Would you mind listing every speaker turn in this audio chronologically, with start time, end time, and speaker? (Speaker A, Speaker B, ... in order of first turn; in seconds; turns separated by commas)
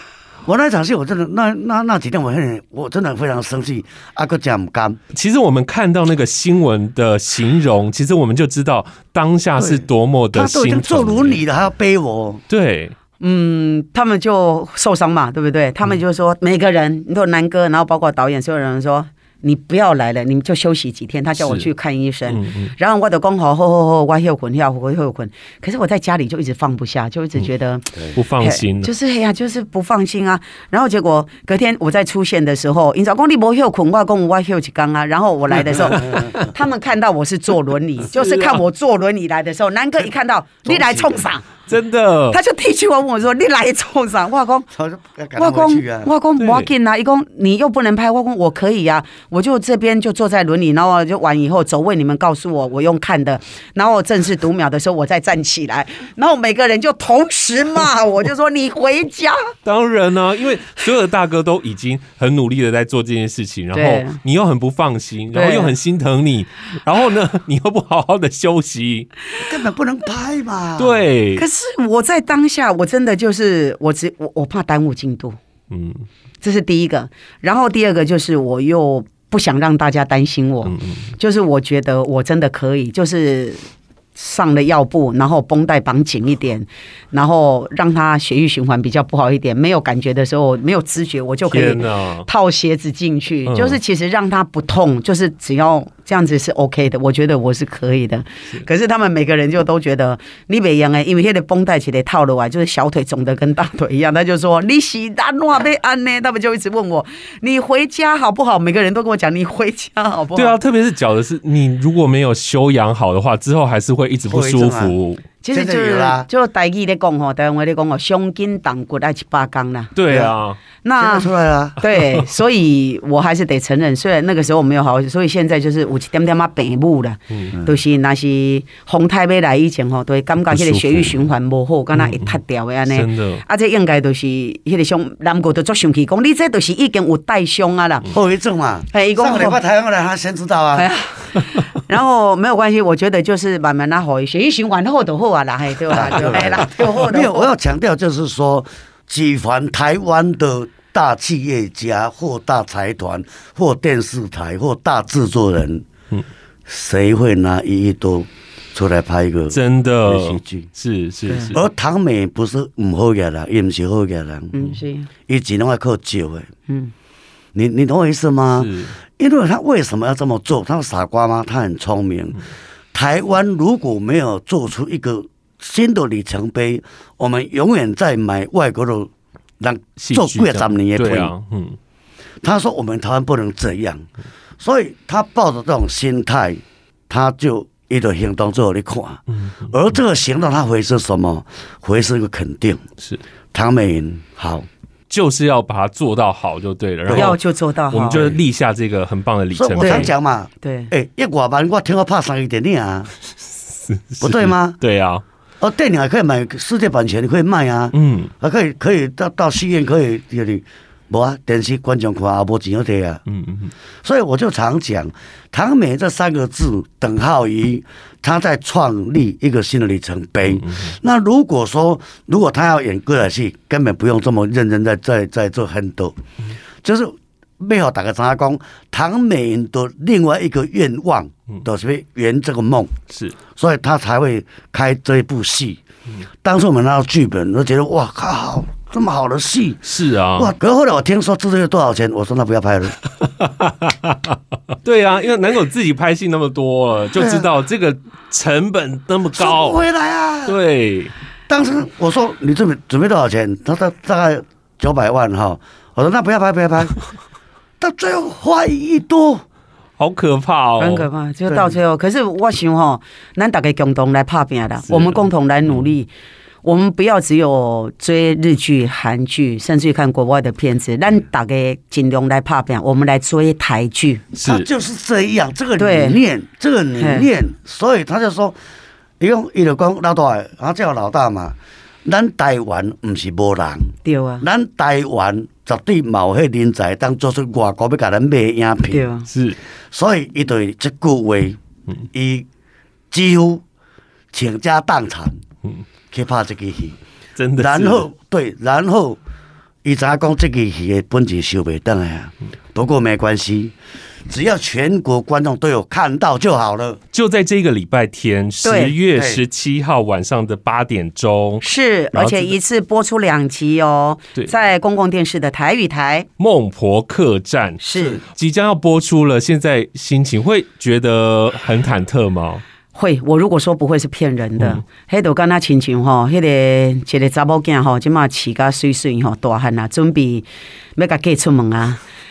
Speaker A: 0.5-5.0, Speaker B: 5.1-11.4, Speaker A: 10.3-12.4, Speaker B: 12.5-12.9, Speaker C: 13.2-41.5, Speaker B: 21.4-21.7, Speaker B: 22.3-22.7, Speaker B: 28.1-28.9, Speaker B: 36.1-36.5, Speaker B: 38.1-38.6, Speaker A: 40.7-41.2, Speaker B: 41.7-42.4, Speaker C: 42.3-44.7, Speaker A: 44.7-46.1, Speaker C: 45.4-59.5, Speaker B: 46.4-46.7, Speaker B: 59.6-69.1, Speaker C: 63.7-64.2, Speaker C: 65.3-65.7, Speaker A: 69.4-71.0, Speaker B: 70.8-71.5, Speaker C: 71.4-75.4, Speaker B: 75.7-76.0, Speaker C: 76.4-83.6, Speaker B: 80.7-81.1, Speaker C: 84.2-110.6, Speaker B: 91.5-92.3, Speaker B: 93.5-93.8, Speaker B: 110.4-115.2, Speaker A: 114.3-115.0, Speaker C: 115.4-119.9, Speaker A: 115.5-116.3, Speaker B: 120.0-120.6, Speaker A: 120.1-120.3, Speaker C: 120.8-138.1, Speaker A: 121.0-121.8, Speaker B: 130.6-131.0, Speaker B: 131.9-133.4, Speaker A: 138.1-140.9, Speaker C: 138.9-139.6, Speaker C: 140.8-147.5, Speaker A: 145.9-155.9, Speaker A: 156.7-160.7, Speaker B: 159.5-161.7, Speaker A: 161.5-164.6, Speaker C: 164.5-165.1, Speaker A: 165.3-166.5, Speaker A: 167.6-172.4, Speaker B: 168.6-168.9, Speaker A: 172.9-181.3, Speaker B: 180.0-181.8, Speaker A: 182.4-184.1, Speaker A: 184.6-192.8, Speaker A: 193.5-194.7, Speaker B: 195.1-197.4, Speaker A: 197.1-197.4, Speaker C: 197.1-198.3, Speaker B: 197.9-200.1, Speaker A: 198.1-198.4, Speaker A: 199.5-203.1, Speaker C: 199.8-200.9, Speaker B: 203.7-205.2, Speaker A: 204.2-204.8, Speaker A: 205.6-213.2, Speaker B: 207.9-208.3, Speaker B: 213.3-213.7, Speaker A: 214.0-226.2, Speaker B: 220.5-220.9, Speaker A: 226.8-233.0, Speaker B: 233.1-233.4, Speaker A: 233.6-235.8, Speaker A: 236.4-243.0, Speaker B: 239.8-240.5, Speaker B: 243.4-249.8, Speaker A: 247.2-247.5, Speaker A: 249.3-250.6, Speaker B: 250.5-251.1, Speaker A: 251.5-257.0, Speaker A: 257.8-259.4, Speaker B: 260.0-261.1, Speaker C: 260.8-266.1, Speaker B: 264.9-265.2, Speaker C: 266.6-274.2, Speaker B: 274.3-274.7, Speaker A: 274.4-278.6, Speaker C: 275.8-276.2, Speaker C: 277.0-277.3, Speaker A: 279.2-289.1, Speaker C: 284.1-284.4, Speaker C: 288.9-289.3, Speaker B: 289.3-289.6, Speaker A: 289.9-291.6, Speaker A: 292.1-292.5, Speaker A: 293.1-293.6, Speaker A: 294.3-295.4, Speaker A: 296.1-297.0, Speaker B: 297.4-298.1, Speaker A: 297.6-299.2, Speaker A: 299.8-303.8, Speaker A: 304.3-307.0, Speaker B: 307.1-312.5, Speaker C: 308.6-308.9, Speaker A: 309.1-309.4, Speaker C: 311.6-316.3, Speaker B: 316.4-322.6, Speaker C: 317.8-318.2, Speaker C: 322.9-330.5, Speaker C: 331.0-332.0